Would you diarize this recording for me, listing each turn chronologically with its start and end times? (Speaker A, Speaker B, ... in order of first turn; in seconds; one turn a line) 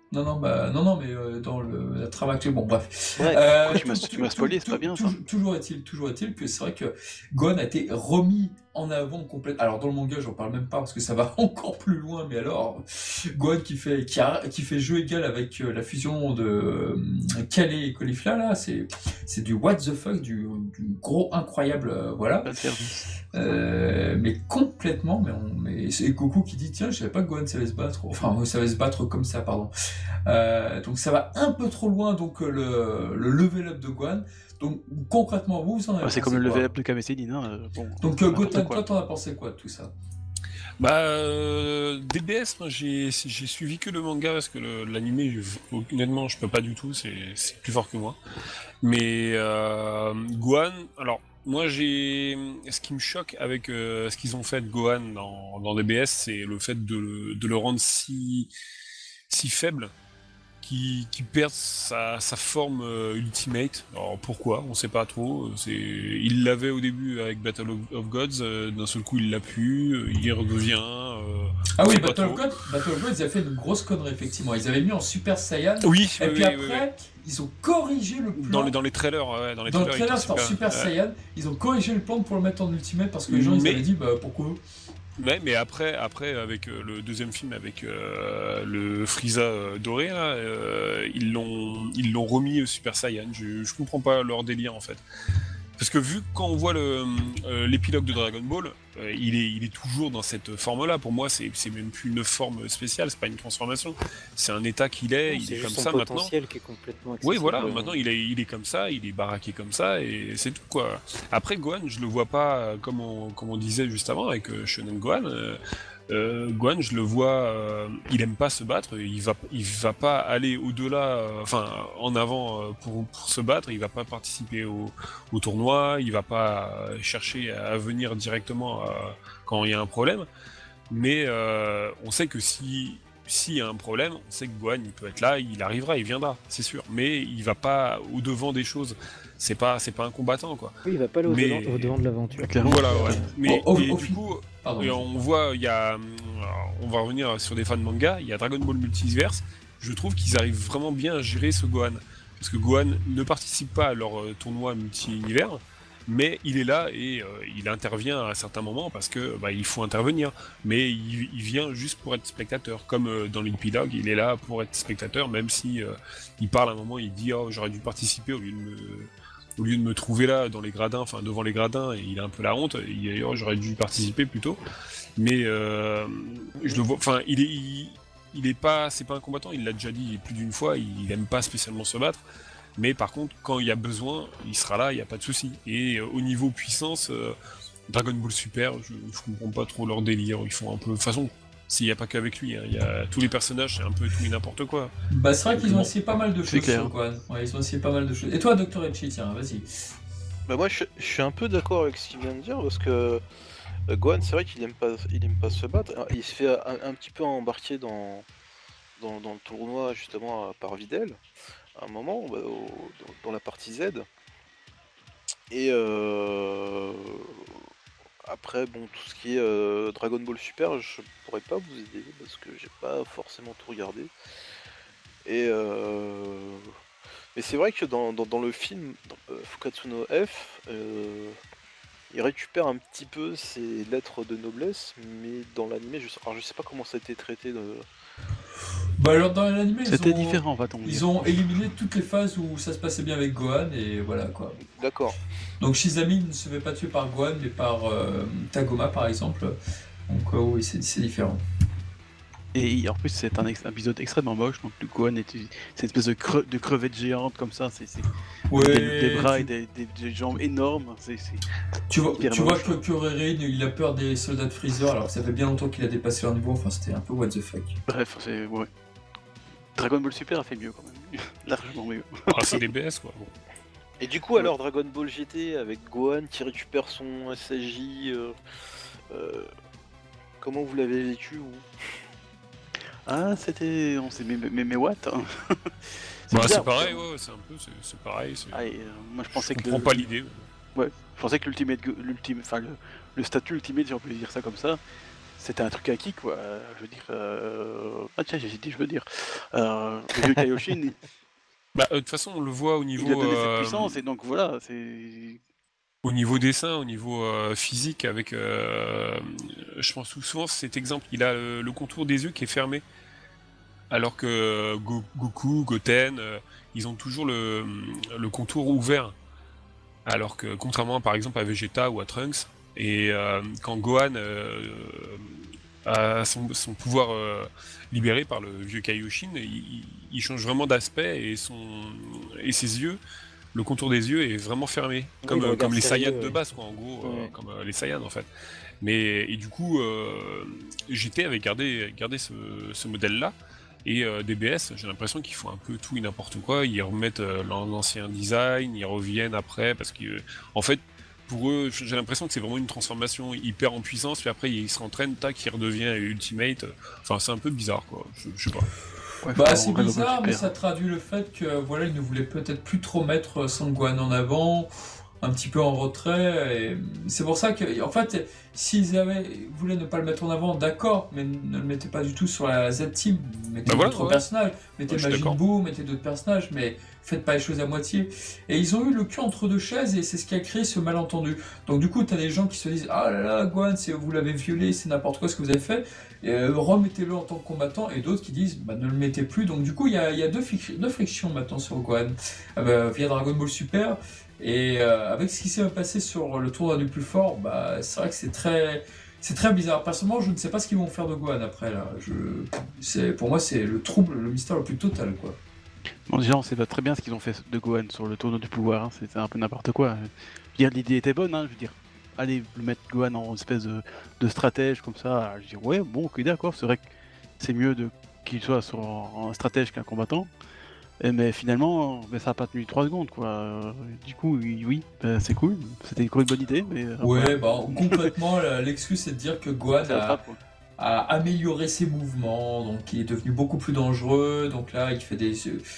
Speaker A: 0.1-22.5
Speaker B: 3.2-5.2
Speaker B: 22.4-23.1
Speaker A: 23.2-29.7
Speaker A: 30.2-36.7
Speaker B: 36.0-38.8
Speaker A: 38.0-39.9
Speaker C: 40.8-48.2
Speaker C: 48.8-58.5
Speaker C: 59.3-59.9
Speaker C: 60.6-72.4
Speaker A: 71.8-78.7
Speaker C: 75.8-76.8
Speaker C: 78.3-80.9
Speaker A: 79.7-84.6
Speaker C: 83.3-83.9
Speaker C: 85.2-95.0
Speaker C: 95.8-106.3
Speaker D: 105.3-108.0
Speaker C: 107.2-115.6
Speaker C: 116.1-130.3
Speaker C: 130.9-140.7
Speaker D: 140.8-143.3
Speaker C: 141.2-142.0
Speaker B: 142.4-143.2
Speaker C: 142.6-174.6
Speaker A: 143.4-145.1
Speaker C: 175.2-182.2
Speaker C: 182.8-187.3
Speaker C: 187.9-194.9
Speaker A: 195.1-199.7
Speaker B: 195.5-195.9
Speaker B: 196.4-196.9
Speaker E: 200.5-203.2
Speaker E: 203.9-208.2
Speaker E: 209.0-211.2
Speaker E: 211.8-214.1
Speaker E: 215.5-217.4
Speaker E: 218.2-224.1
Speaker E: 225.2-226.7
Speaker E: 227.3-231.3
Speaker E: 232.1-237.8
Speaker A: 239.0-244.6
Speaker B: 239.9-241.1
Speaker E: 244.6-245.2
Speaker A: 245.6-251.4
Speaker B: 252.5-261.4
Speaker A: 258.5-259.5
Speaker A: 261.9-267.8
Speaker B: 262.2-262.8
Speaker B: 267.9-268.7
Speaker B: 269.8-272.6
Speaker C: 272.3-273.3
Speaker E: 274.0-278.3
Speaker E: 279.1-279.5
Speaker E: 280.4-281.6
Speaker B: 283.1-287.0
Speaker C: 286.3-288.6
Speaker B: 288.5-290.0
Speaker C: 289.3-290.4
Speaker B: 290.7-294.8
Speaker B: 295.4-301.0
Speaker C: 301.7-304.0
Speaker B: 303.0-305.4
Speaker C: 306.0-312.8
Speaker C: 313.9-319.1
Speaker C: 320.1-333.0
Speaker C: 333.5-338.3
Speaker D: 335.2-336.4
Speaker D: 337.0-337.3
Speaker C: 338.8-358.7
Speaker B: 359.2-360.5
Speaker A: 359.3-364.7
Speaker A: 365.2-405.4
Speaker C: 373.6-374.2
Speaker C: 374.9-375.4
Speaker B: 406.1-416.9
Speaker B: 417.4-420.3
Speaker B: 421.0-428.1
Speaker A: 427.0-430.2
Speaker B: 429.7-430.4
Speaker A: 430.8-435.6